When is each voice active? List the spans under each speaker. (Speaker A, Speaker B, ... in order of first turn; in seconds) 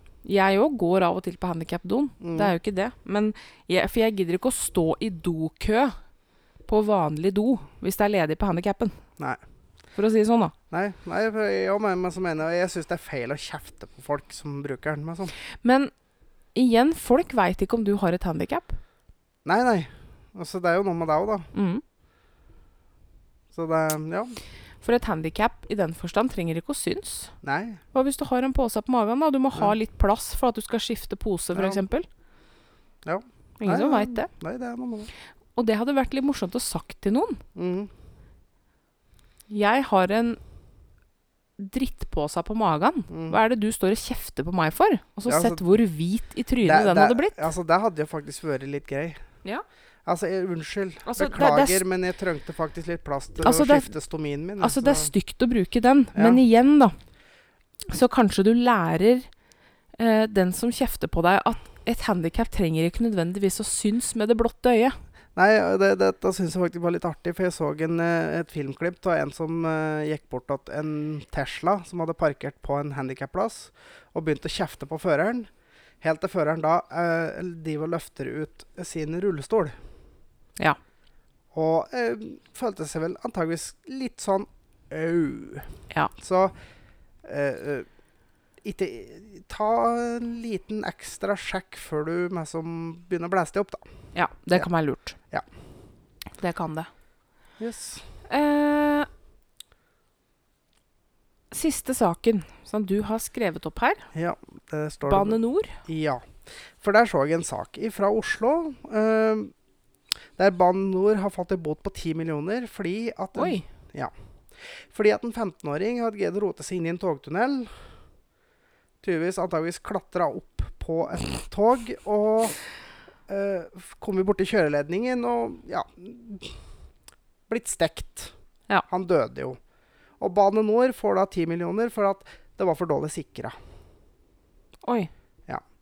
Speaker A: 0.2-6.0, 6.7-9.0, 9.9-10.5, 15.6-15.9, 16.5-18.8, 21.5-21.8, 24.8-27.3, 27.9-32.1, 33.6-34.3, 35.5-37.4, 39.5-40.4, 41.6-47.4, 51.0-51.8, 53.4-53.9, 54.6-56.9, 57.9-59.3, 60.0-65.0, 94.1-95.2, 96.4-96.9, 98.3-99.1, 101.5-104.1, 105.0-105.8, 113.3-113.6, 134.8-135.1
Speaker B: 2.2-2.5, 10.7-15.3, 19.4-21.5, 23.5-24.4, 27.4-27.8, 31.5-31.8, 33.0-35.1, 37.5-37.9, 43.1-43.4, 45.3-45.6, 46.6-49.2, 50.0-55.1, 56.1-56.4, 65.3-75.5, 76.0-79.8, 81.5-86.5, 87.2-87.9, 88.6-93.8, 97.6-98.0, 104.1-109.5, 110.4-117.8, 119.0-122.6, 123.3-126.6, 127.5-128.3, 128.9-129.6, 130.2-133.6